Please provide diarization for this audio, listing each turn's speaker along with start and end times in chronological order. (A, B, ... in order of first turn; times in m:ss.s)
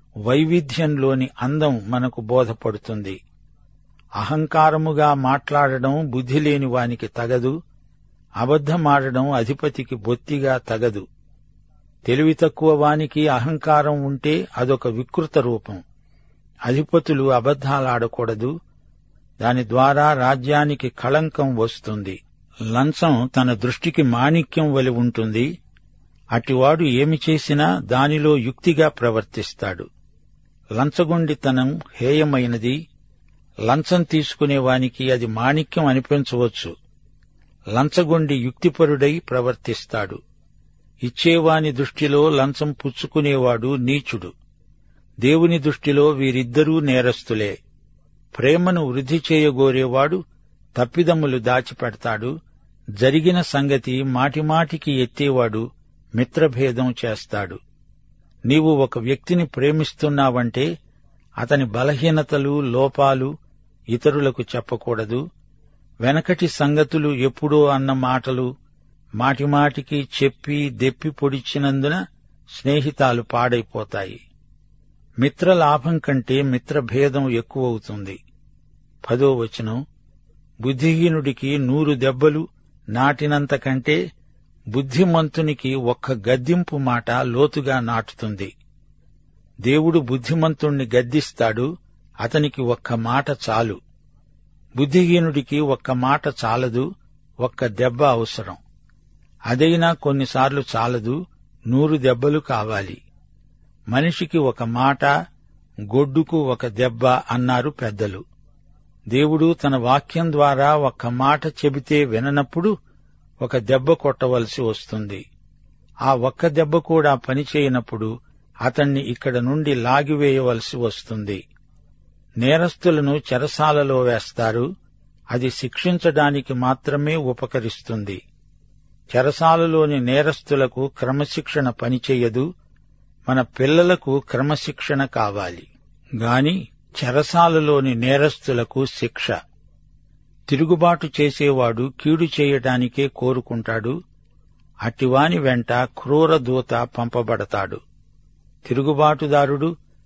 0:00.3-0:03.2 A
0:04.2-0:07.5 A
0:08.4-0:11.0 A
0:12.1-0:15.8 A
0:16.7-0:18.5 A
0:19.4-0:22.2 A
0:22.7-0:25.5 A
0:26.3-0:29.8 A
0:30.8-0:32.8 A
0:33.7-0:36.7 A
0:37.8-0:40.2 A
0:41.0-0:44.3 A
0:45.2-0:47.5 A
0:48.4-0:50.2 A
0:50.8-0:52.3 A
0:53.0-0:55.6 A
0:56.2-0:57.6 A
0:58.5-1:00.7 A
1:01.4-1:03.3 A
1:03.9-1:05.2 A
1:06.0-1:08.5 A
1:09.2-1:12.0 A
1:12.5-1:14.2 A
1:15.2-1:18.2 A
1:19.0-1:19.8 A
1:20.6-1:24.0 A
1:24.7-1:28.5 A
1:29.7-1:31.7 A
1:32.2-1:33.8 A
1:34.8-1:36.9 A
1:37.4-1:38.6 A
1:39.5-1:41.2 A
1:41.7-1:43.0 A
1:43.9-1:45.1 A
1:45.9-1:48.2 A
1:49.1-1:52.7 A
1:53.4-1:55.2 A
1:56.0-1:58.1 A
1:58.6-2:01.4 A
2:02.4-2:04.7 A
2:05.3-2:08.2 A
2:09.1-2:12.4 A
2:13.3-2:15.7 A
2:16.2-2:19.3 A
2:20.5-2:24.0 A
2:24.8-2:27.8 A
2:28.6-2:29.7 A